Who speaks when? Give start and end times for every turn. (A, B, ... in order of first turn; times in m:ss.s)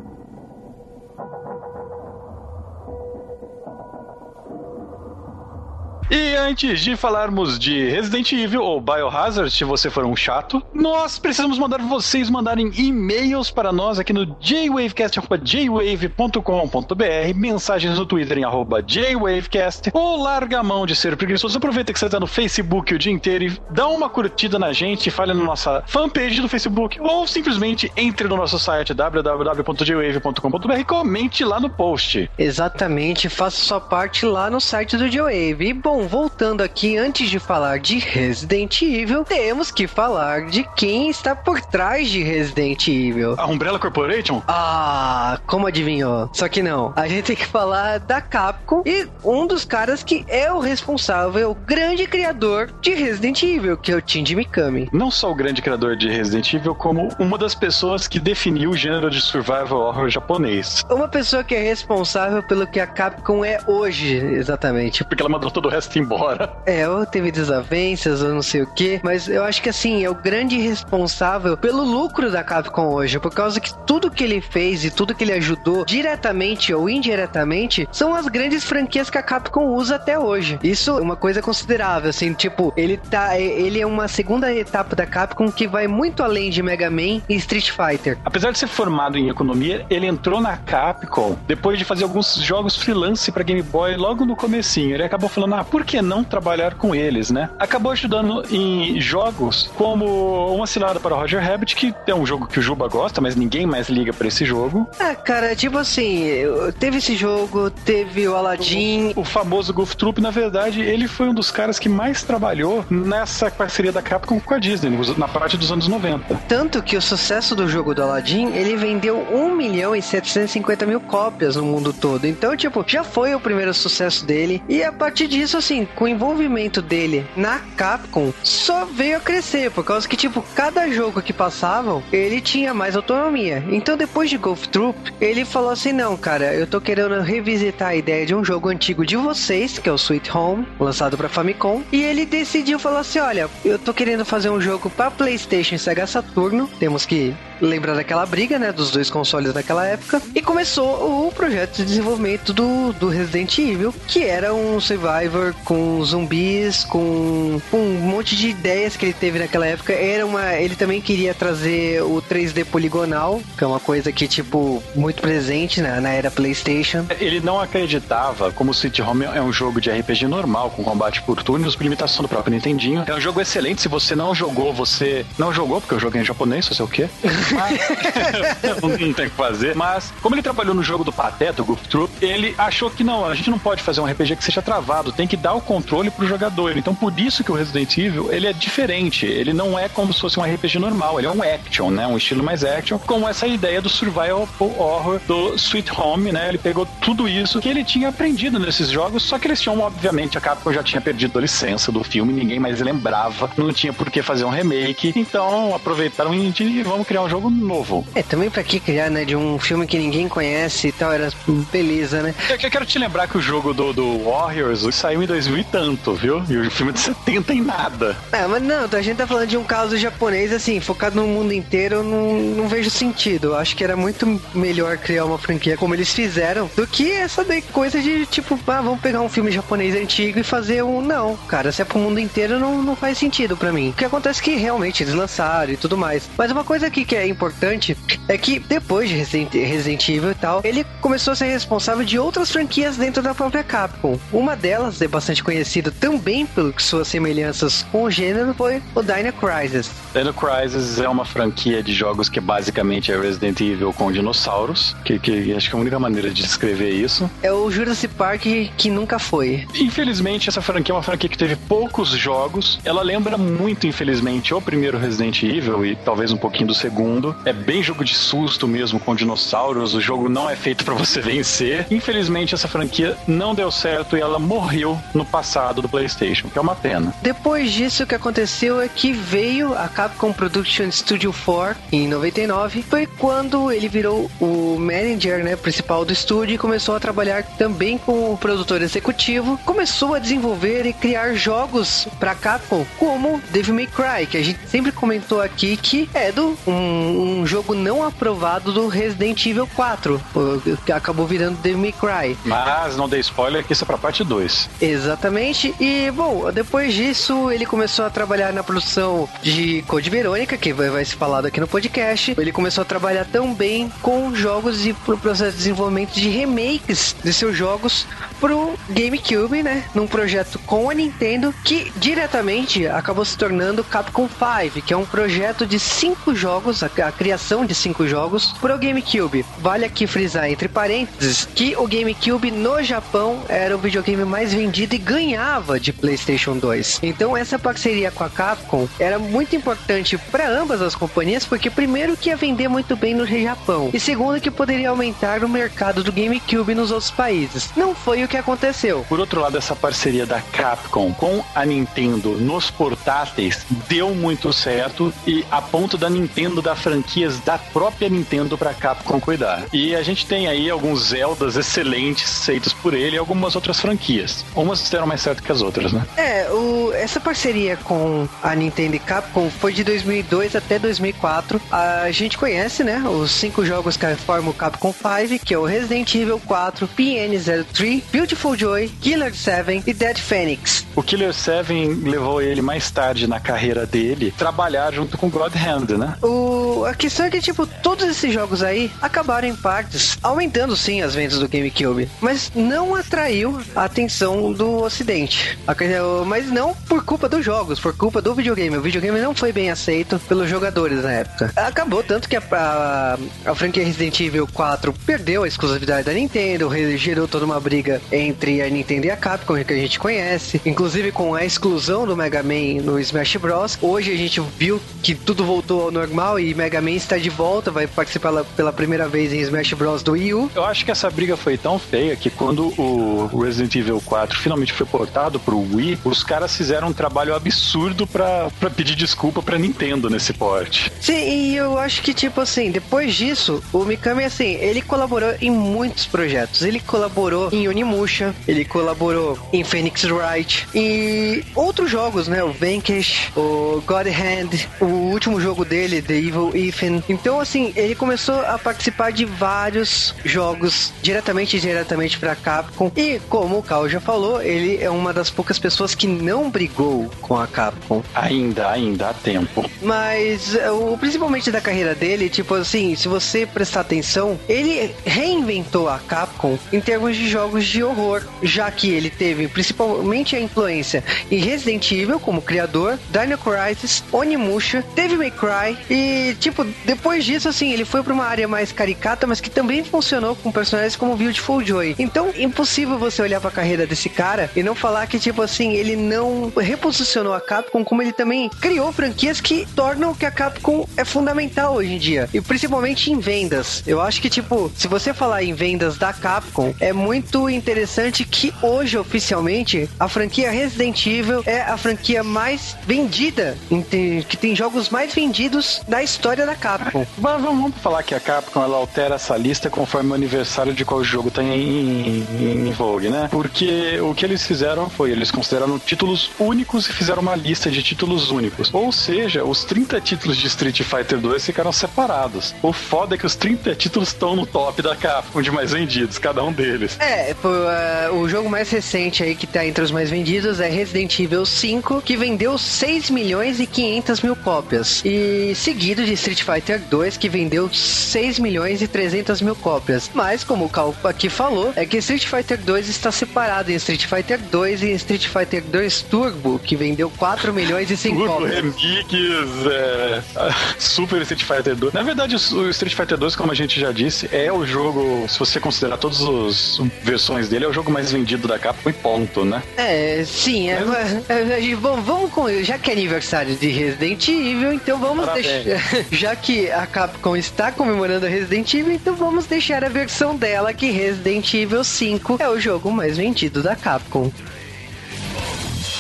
0:06.1-0:32.3 A
0:32.4-0:43.4 B
0:43.4-0:44.4 A
0:44.5-0:54.9 B
0:54.9-1:00.8 A
1:00.9-1:05.1 B
1:05.1-1:06.6 A
1:06.7-1:28.2 B
1:28.2-1:44.9 A
1:45.0-1:49.2 B
1:48.6-1:56.4 A
1:56.5-2:47.1 B
2:47.1-3:28.1 A
2:57.4-2:58.3 B
3:28.2-3:32.4 B
3:32.4-3:38.2 A
3:38.3-4:10.0 B
4:10.1-4:17.3 A
4:17.4-4:19.7 B
4:19.7-4:37.2 A
4:37.2-5:02.4 B
5:02.4-5:04.7 A
5:04.8-5:49.1 B
5:49.1-6:06.1 A
6:06.2-6:20.9 B
6:21.0-6:26.2 A
6:26.2-7:00.5 B
7:00.5-7:10.9 A
7:11.0-7:38.1 B
7:38.2-7:39.7 A
7:39.8-8:27.1 B
8:26.9-8:47.0 A
8:47.0-9:08.7 B
9:08.0-9:19.6 A
9:19.8-9:34.3 B
9:20.7-9:21.0 A
9:25.2-9:25.7 A